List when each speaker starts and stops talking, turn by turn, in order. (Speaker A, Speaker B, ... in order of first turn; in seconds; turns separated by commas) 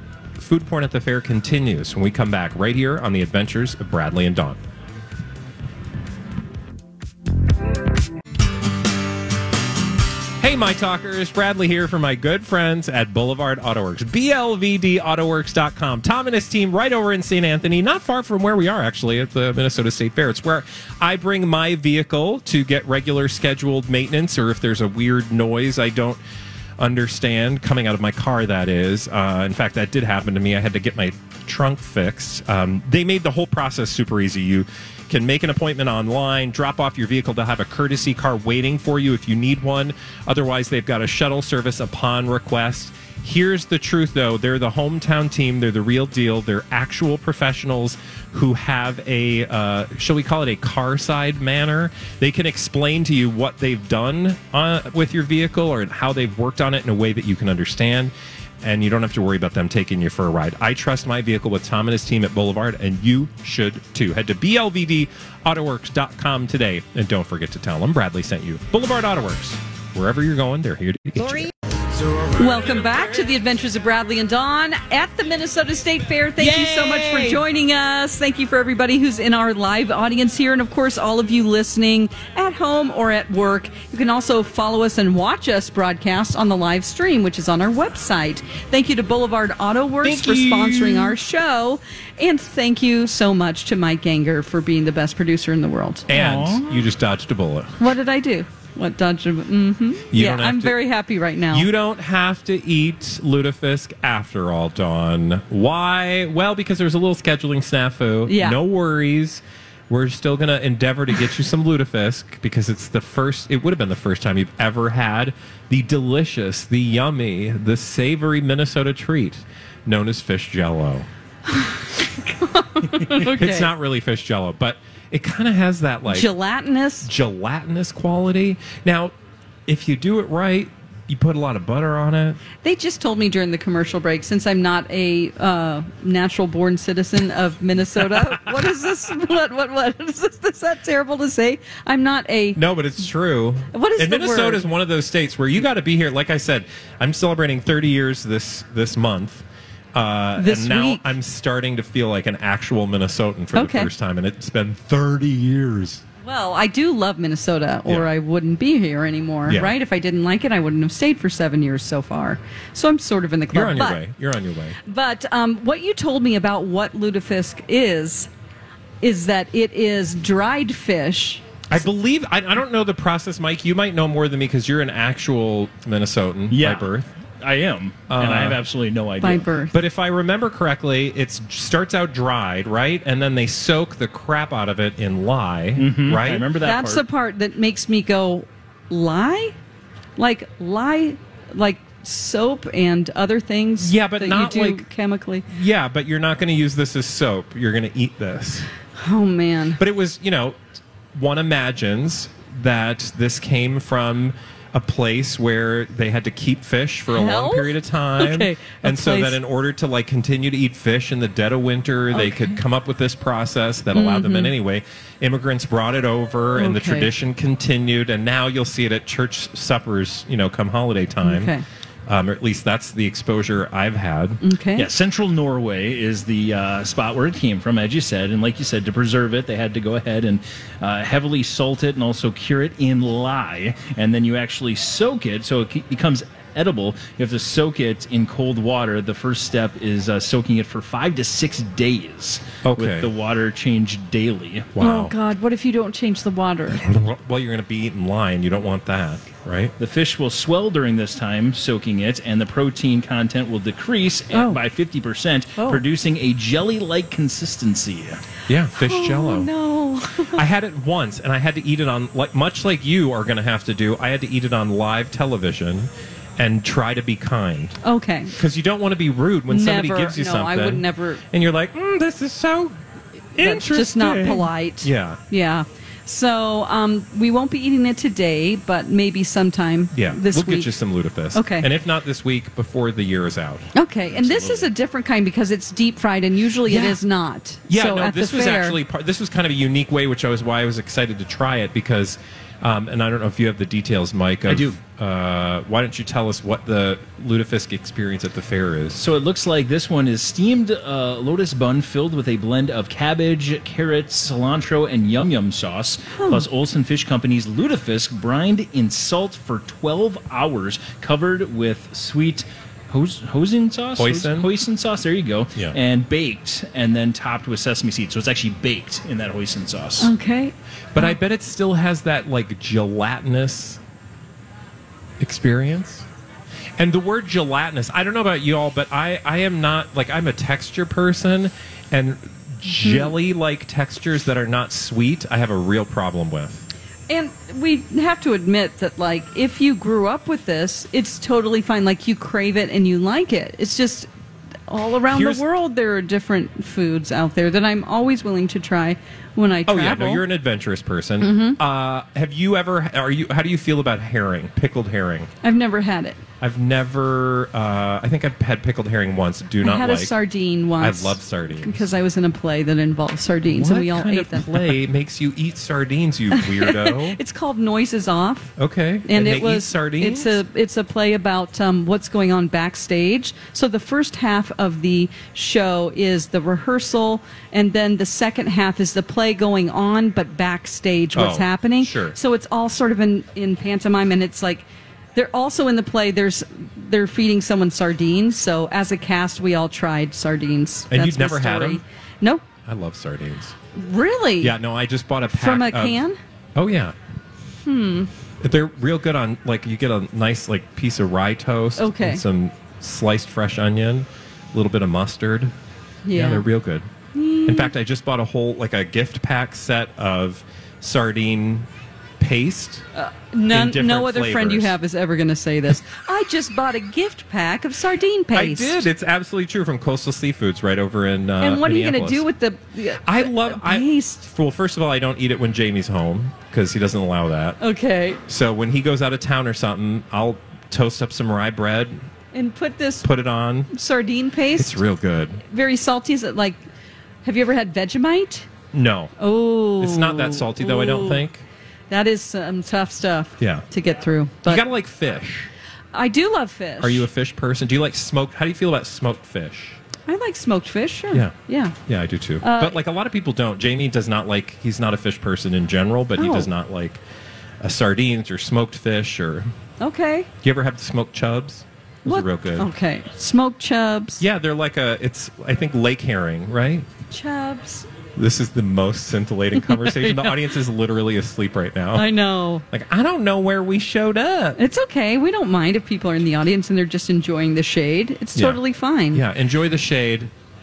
Speaker A: 0.4-4.6, Speaker A: 10.4-26.2, Speaker A: 26.8-71.5, Speaker B: 72.3-96.1, Speaker A: 90.0-91.2, Speaker A: 96.1-97.8, Speaker C: 96.1-96.8, Speaker B: 97.8-101.7, Speaker A: 100.1-100.8, Speaker A: 101.5-121.1, Speaker B: 108.3-108.6, Speaker B: 121.5-123.7, Speaker A: 123.1-126.3, Speaker B: 126.1-127.1, Speaker A: 127.0-129.1, Speaker A: 129.7-132.4, Speaker B: 132.6-142.6, Speaker A: 142.6-156.0, Speaker B: 143.7-144.7, Speaker B: 150.4-151.1, Speaker B: 153.5-153.9, Speaker B: 156.2-164.0, Speaker A: 159.5-159.8, Speaker A: 163.5-164.8, Speaker B: 164.8-168.3, Speaker B: 169.0-171.4, Speaker A: 171.7-177.1, Speaker C: 176.5-176.9, Speaker C: 177.4-179.5, Speaker A: 178.1-178.6, Speaker B: 179.2-179.8, Speaker A: 179.7-186.5, Speaker C: 185.8-187.0, Speaker B: 186.6-189.6, Speaker B: 190.2-195.5, Speaker A: 193.8-194.9, Speaker A: 195.5-198.7, Speaker B: 199.0-199.8, Speaker A: 199.8-200.6, Speaker A: 201.1-221.5, Speaker B: 207.1-209.4, Speaker B: 212.1-212.6, Speaker B: 213.9-214.5, Speaker B: 216.6-217.1, Speaker B: 221.2-221.6, Speaker A: 222.1-224.4, Speaker B: 224.4-224.9, Speaker C: 224.8-244.7, Speaker A: 242.6-243.1, Speaker A: 244.8-245.1, Speaker B: 244.8-246.8, Speaker A: 246.7-249.7, Speaker C: 249.8-258.2, Speaker B: 254.3-254.6, Speaker B: 255.6-255.8, Speaker A: 258.5-259.5, Speaker B: 258.8-260.4, Speaker A: 260.3-267.8, Speaker B: 267.8-268.4, Speaker A: 268.3-272.8, Speaker B: 269.5-271.2, Speaker A: 273.4-275.2, Speaker B: 273.4-280.7, Speaker A: 279.9-284.7, Speaker B: 281.3-281.7, Speaker B: 283.7-288.8, Speaker A: 286.7-287.0, Speaker A: 287.7-299.0, Speaker C: 294.5-294.8, Speaker C: 298.9-320.1, Speaker B: 306.1-306.5, Speaker A: 314.0-314.5, Speaker B: 320.0-321.2, Speaker A: 320.9-323.8, Speaker A: 325.2-326.1, Speaker A: 326.8-336.7, Speaker B: 332.8-333.1, Speaker B: 337.1-344.1, Speaker B: 344.7-350.2, Speaker A: 345.1-345.4, Speaker A: 349.7-355.3, Speaker B: 351.2-351.6, Speaker B: 355.4-356.2, Speaker A: 356.4-360.1, Speaker B: 359.6-364.7, Speaker A: 360.8-361.9, Speaker A: 363.5-367.2, Speaker B: 366.3-368.5, Speaker A: 368.6-370.4, Speaker B: 369.1-392.4, Speaker A: 381.1-382.2, Speaker A: 390.9-391.8, Speaker A: 392.7-393.6, Speaker B: 393.7-394.6, Speaker A: 394.4-396.0, Speaker B: 395.3-396.2, Speaker A: 396.6-396.9, Speaker B: 397.6-398.1, Speaker A: 398.4-405.5, Speaker B: 401.8-402.2, Speaker B: 406.1-406.5, Speaker A: 406.1-406.9, Speaker B: 407.1-407.7, Speaker A: 407.5-411.7, Speaker A: 412.2-412.8, Speaker B: 412.9-418.8, Speaker A: 413.5-414.8, Speaker A: 418.3-422.3, Speaker B: 421.4-424.2, Speaker A: 423.0-427.6, Speaker B: 427.6-428.2, Speaker A: 428.3-432.0, Speaker B: 432.3-433.1, Speaker A: 433.0-433.7, Speaker B: 433.7-434.8, Speaker A: 434.6-435.4, Speaker B: 435.5-436.6, Speaker B: 437.2-438.5, Speaker A: 438.7-439.1, Speaker B: 439.2-441.2, Speaker A: 439.8-441.4, Speaker B: 441.9-444.6, Speaker A: 443.4-443.6, Speaker A: 444.4-445.5, Speaker B: 445.9-447.1, Speaker A: 446.8-449.8, Speaker B: 450.1-451.8, Speaker A: 451.9-457.0, Speaker B: 452.4-452.8, Speaker B: 456.2-456.5, Speaker A: 457.6-459.5, Speaker B: 459.8-460.3, Speaker A: 460.4-462.7, Speaker B: 462.1-464.2, Speaker A: 464.2-466.9, Speaker B: 467.1-467.9, Speaker A: 468.2-472.1, Speaker B: 469.6-470.6, Speaker B: 471.9-472.6, Speaker A: 472.7-474.6, Speaker B: 474.6-479.2, Speaker A: 478.4-480.3